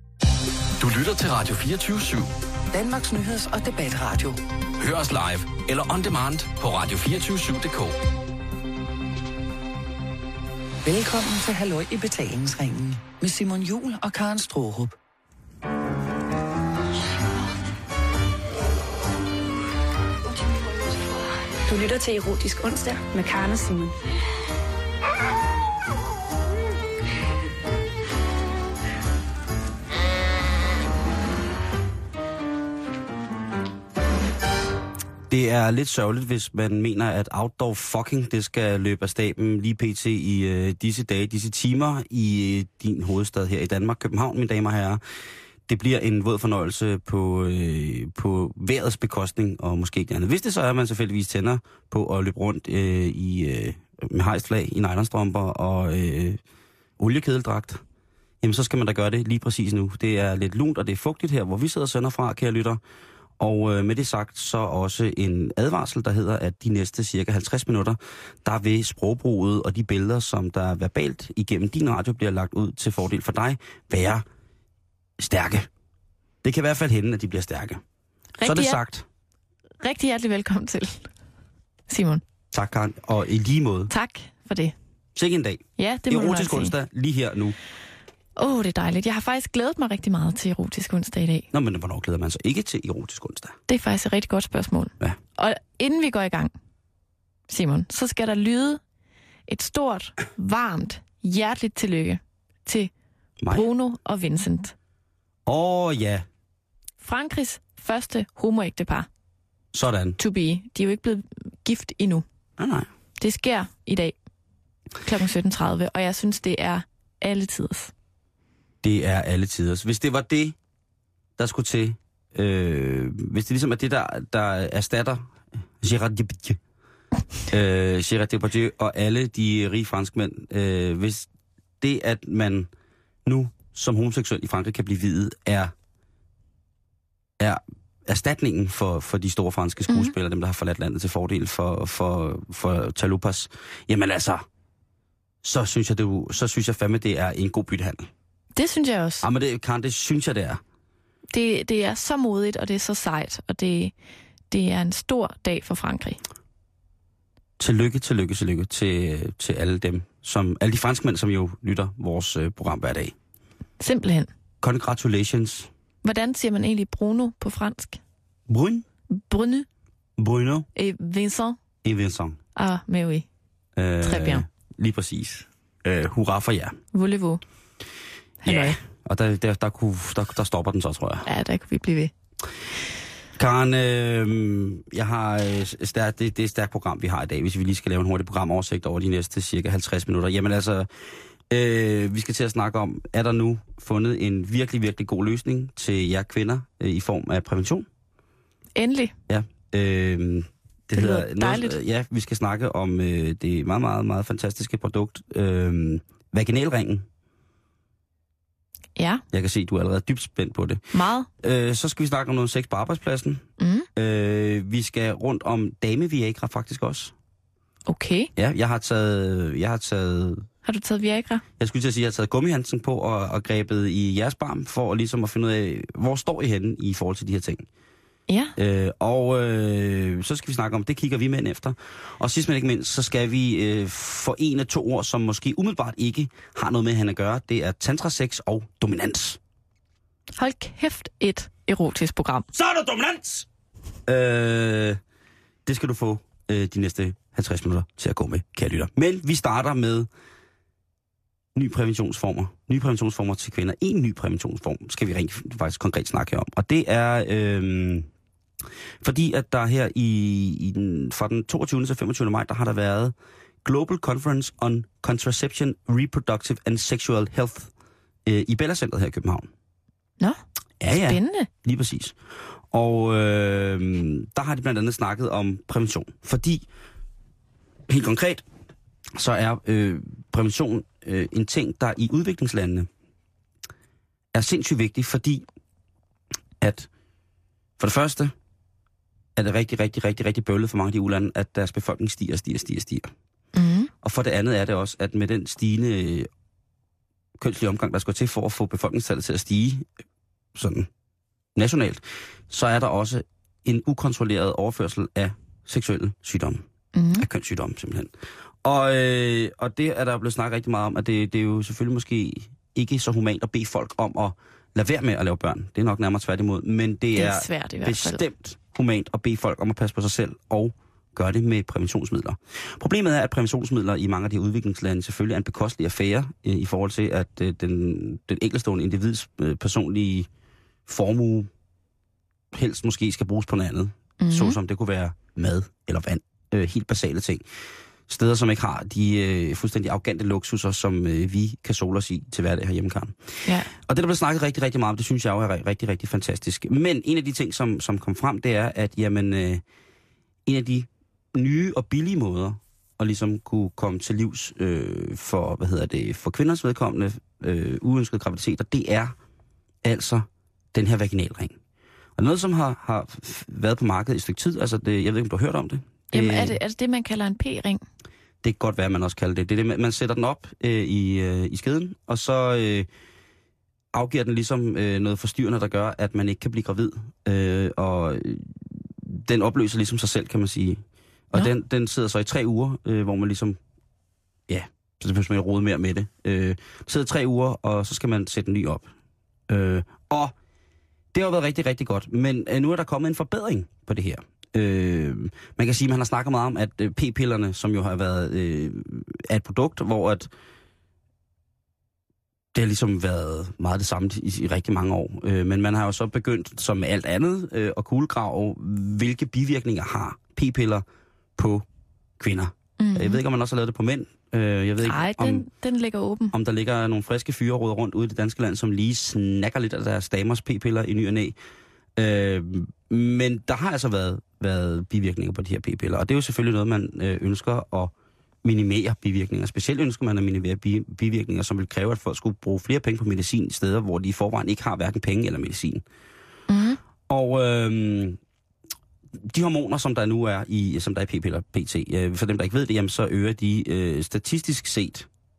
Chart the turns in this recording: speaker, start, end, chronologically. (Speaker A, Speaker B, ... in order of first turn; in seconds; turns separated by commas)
Speaker A: 0.8-2.3, Speaker B: 2.7-4.4, Speaker A: 4.8-8.0, Speaker B: 10.8-14.9, Speaker C: 20.3-23.9, Speaker D: 35.3-45.0, Speaker D: 45.7-56.4, Speaker D: 57.0-57.8, Speaker D: 58.4-62.8, Speaker D: 63.4-74.2, Speaker D: 75.2-75.7, Speaker D: 76.4-77.8, Speaker E: 78.4-78.8, Speaker D: 78.4-79.0, Speaker E: 79.8-81.1, Speaker E: 81.9-82.2, Speaker D: 82.5-83.9, Speaker E: 83.9-84.7, Speaker D: 85.2-87.5, Speaker E: 85.8-86.7, Speaker E: 88.4-91.5, Speaker D: 91.5-93.6, Speaker E: 93.7-96.5, Speaker E: 97.5-98.8, Speaker E: 99.5-102.9, Speaker D: 103.4-103.7, Speaker E: 103.5-104.7, Speaker D: 105.5-106.2, Speaker E: 107.0-109.1, Speaker D: 109.7-110.2, Speaker E: 110.2-112.2, Speaker D: 112.6-112.9, Speaker E: 113.2-114.1, Speaker E: 115.0-117.9, Speaker D: 118.8-120.5, Speaker D: 121.4-126.6, Speaker D: 127.5-131.3, Speaker D: 131.8-132.7, Speaker D: 133.2-135.7, Speaker D: 137.4-144.4, Speaker D: 145.4-148.1, Speaker E: 148.6-149.2, Speaker D: 149.2-150.6, Speaker E: 151.3-153.9, Speaker E: 154.5-156.2, Speaker D: 157.6-163.1, Speaker E: 163.8-164.3, Speaker D: 164.6-165.7, Speaker E: 166.0-168.0, Speaker D: 168.5-168.8, Speaker E: 169.1-169.7, Speaker D: 170.2-170.7, Speaker E: 170.7-171.6, Speaker D: 171.8-172.4, Speaker E: 172.6-173.2, Speaker D: 173.8-176.8, Speaker E: 174.0-174.4, Speaker E: 176.9-177.4, Speaker D: 178.4-181.2, Speaker E: 178.4-178.8, Speaker E: 181.2-182.1, Speaker D: 183.3-190.9, Speaker D: 191.5-197.9, Speaker E: 198.8-199.1, Speaker D: 199.3-207.1, Speaker E: 200.9-201.8, Speaker E: 208.9-209.2, Speaker D: 209.3-210.8, Speaker E: 210.9-211.3, Speaker D: 211.4-213.4, Speaker E: 213.6-213.9, Speaker D: 213.9-217.1, Speaker E: 217.9-218.3, Speaker D: 218.3-220.5, Speaker E: 220.6-221.4, Speaker D: 221.6-227.7, Speaker E: 228.3-228.5, Speaker D: 228.6-239.4, Speaker E: 240.4-242.4, Speaker D: 242.5-243.5, Speaker D: 244.1-245.0, Speaker D: 245.7-250.1, Speaker D: 251.5-258.1, Speaker D: 259.0-267.7, Speaker D: 268.2-269.5, Speaker D: 270.8-272.2, Speaker E: 270.9-271.5, Speaker D: 272.7-276.6, Speaker D: 277.9-278.4, Speaker D: 279.1-282.9, Speaker D: 284.3-285.4, Speaker D: 286.6-286.9, Speaker D: 287.8-288.3, Speaker D: 289.4-293.1, Speaker E: 293.5-293.9, Speaker D: 294.0-296.3, Speaker D: 297.4-299.9, Speaker D: 300.5-300.9, Speaker D: 301.5-306.6, Speaker E: 306.9-307.3, Speaker D: 307.2-308.1, Speaker D: 308.6-330.3, Speaker E: 317.1-318.2, Speaker D: 330.9-331.5, Speaker D: 332.5-337.4, Speaker E: 334.2-334.6, Speaker D: 338.1-349.6, Speaker E: 343.4-343.7, Speaker D: 350.4-359.1, Speaker D: 359.8-361.6, Speaker D: 362.2-366.6, Speaker E: 366.1-367.8, Speaker D: 368.4-372.9, Speaker D: 373.9-383.6, Speaker D: 384.5-388.9, Speaker D: 389.5-390.3, Speaker D: 391.1-400.3, Speaker D: 402.5-410.8, Speaker D: 411.4-411.6, Speaker D: 412.2-415.4, Speaker E: 412.8-413.2, Speaker E: 414.8-416.3, Speaker D: 416.3-421.4, Speaker D: 421.9-427.9, Speaker D: 428.4-435.8, Speaker E: 436.5-436.8, Speaker D: 437.1-438.2, Speaker D: 439.2-445.1